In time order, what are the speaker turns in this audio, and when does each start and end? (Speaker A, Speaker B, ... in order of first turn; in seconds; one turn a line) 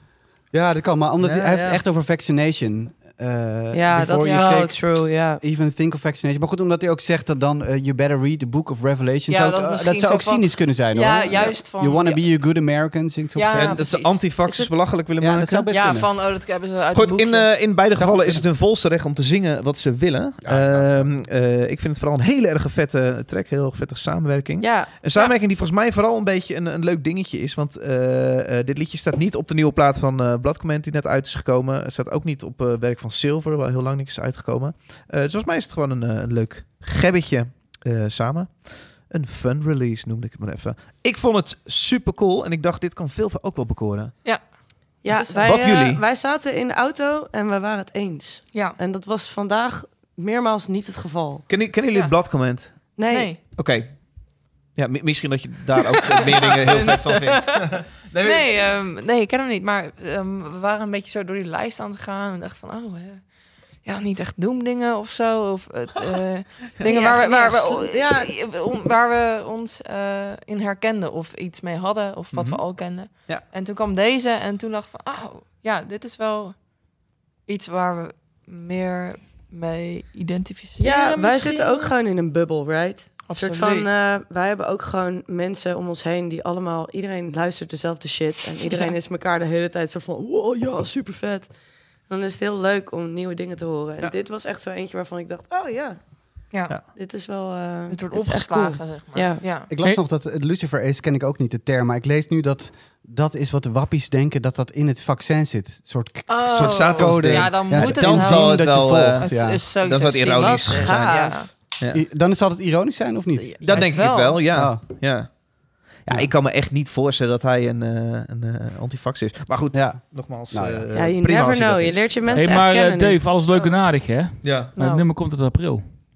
Speaker A: 0.5-13.8
Speaker B: 1.2-1.8
Speaker C: 3.7-5.4
Speaker D: 4.2-4.7
Speaker D: 9.3-12.2
Speaker D: 13.3-14.2
Speaker B: 13.5-15.7
Speaker C: 14.4-14.7
Speaker A: 15.2-16.1
Speaker D: 15.7-17.5
Speaker B: 16.9-44.1
Speaker A: 17.9-18.5
Speaker A: 20.4-21.2
Speaker C: 24.6-24.9
Speaker D: 45.0-45.5
Speaker C: 45.0-51.5
Speaker B: 45.4-46.0
Speaker B: 51.5-53.0
Speaker C: 52.9-53.3
Speaker D: 53.1-53.4
Speaker B: 53.5-58.7
Speaker D: 56.1-76.7
Speaker C: 66.8-68.3
Speaker B: 72.3-73.4
Speaker D: 77.5-81.9
Speaker C: 80.8-99.5
Speaker D: 83.3-83.9
Speaker D: 88.6-88.9
Speaker D: 96.5-96.8
Speaker D: 97.9-99.7
Speaker A: 99.7-109.7
Speaker D: 106.3-111.5
Speaker B: 106.5-112.0
Speaker C: 110.0-111.4
Speaker A: 111.1-115.4
Speaker D: 113.4-114.4
Speaker B: 113.6-122.3
Speaker A: 116.0-116.3
Speaker A: 119.7-121.0
Speaker C: 120.9-123.2
Speaker E: 122.3-125.9
Speaker D: 123.5-124.0
Speaker B: 124.4-124.7
Speaker D: 124.8-125.1